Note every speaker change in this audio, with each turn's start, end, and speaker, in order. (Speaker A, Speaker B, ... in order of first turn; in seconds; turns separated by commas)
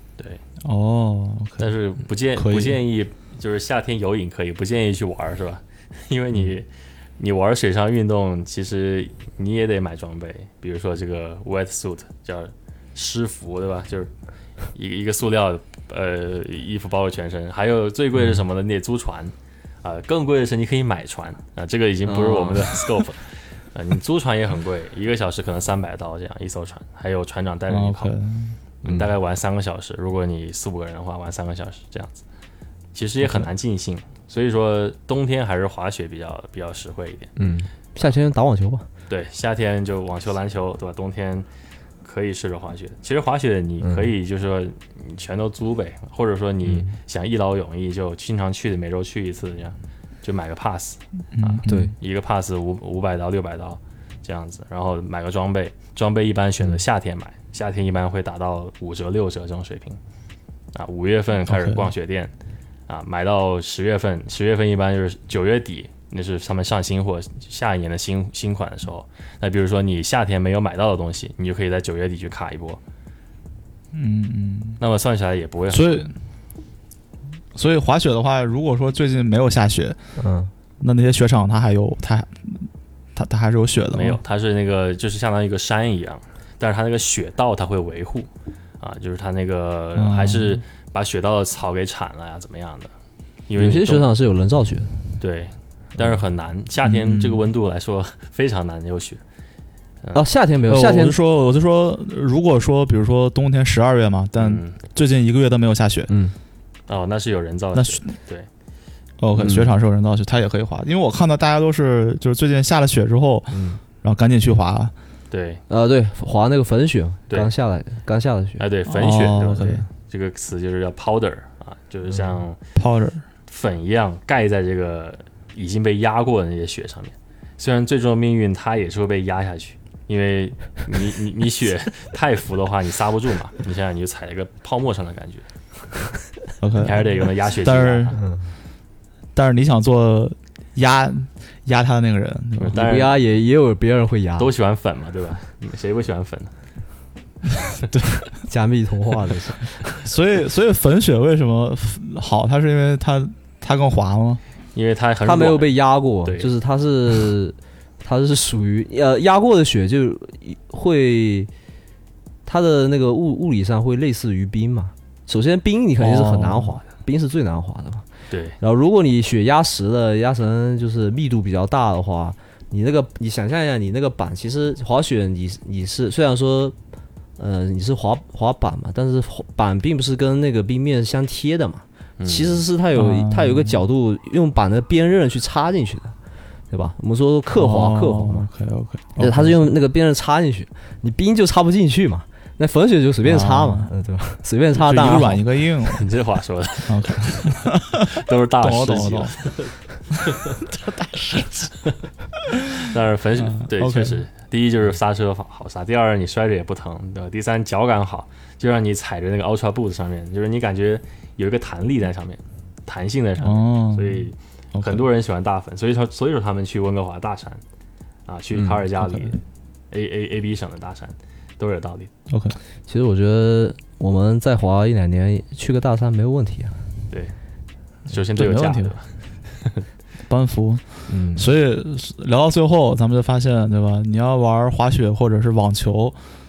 Speaker A: 0.6-1.7, Speaker B: 1.6-6.7, Speaker A: 2.3-2.8, Speaker B: 7.2-14.1, Speaker B: 14.7-28.1, Speaker C: 22.1-22.9, Speaker A: 27.7-28.6, Speaker B: 28.8-32.2, Speaker B: 32.9-37.4, Speaker C: 37.4-38.9, Speaker B: 39.1-41.5, Speaker B: 42.0-60.0, Speaker C: 43.8-44.1, Speaker A: 51.3-51.9, Speaker C: 51.6-51.9, Speaker B: 60.7-62.3, Speaker A: 61.5-61.9, Speaker B: 62.9-72.8, Speaker A: 73.9-74.8, Speaker B: 74.8-76.1, Speaker A: 75.7-76.1, Speaker A: 77.5-80.0, Speaker C: 80.2-80.5, Speaker A: 80.8-84.2, Speaker B: 83.9-88.3, Speaker B: 88.8-92.9, Speaker A: 90.0-90.6, Speaker B: 93.5-94.1, Speaker C: 93.5-94.9, Speaker B: 95.2-99.2, Speaker A: 96.8-97.4, Speaker C: 100.1-101.2, Speaker A: 100.7-106.1, Speaker B: 104.4-104.8, Speaker C: 106.1-106.3, Speaker B: 106.9-108.5, Speaker A: 107.7-108.1, Speaker A: 109.2-114.9, Speaker C: 109.3-109.7, Speaker C: 113.5-113.8, Speaker B: 115.3-115.6, Speaker C: 115.7-118.6, Speaker B: 118.6-122.6, Speaker A: 118.9-119.8, Speaker A: 122.7-123.2, Speaker B: 123.5-135.4, Speaker A: 136.6-137.1, Speaker B: 136.8-138.2, Speaker A: 137.6-138.2, Speaker C: 138.1-138.5, Speaker A: 139.3-142.8, Speaker B: 142.6-143.2, Speaker C: 142.7-144.5, Speaker B: 144.4-146.5, Speaker C: 148.4-149.8, Speaker A: 150.0-154.4, Speaker B: 154.7-155.7, Speaker C: 155.2-161.5, Speaker B: 156.2-156.5, Speaker C: 162.4-168.0, Speaker A: 166.0-166.7, Speaker B: 168.3-168.6, Speaker C: 168.6-176.7, Speaker C: 177.4-186.1, Speaker B: 182.2-182.6, Speaker A: 182.9-183.8, Speaker C: 186.7-188.5, Speaker A: 187.5-189.5, Speaker C: 189.2-195.4, Speaker A: 193.2-193.9, Speaker A: 194.7-196.1, Speaker B: 195.9-200.6, Speaker A: 196.9-198.1, Speaker A: 198.6-199.4, Speaker A: 200.7-201.7, Speaker B: 202.7-217.6, Speaker A: 203.4-204.2, Speaker A: 213.4-215.0, Speaker B: 218.3-222.1, Speaker C: 218.5-218.8, Speaker A: 222.3-222.6, Speaker C: 222.9-226.8, Speaker B: 228.1-229.8, Speaker A: 228.3-228.9, Speaker A: 230.3-236.2, Speaker C: 231.1-231.5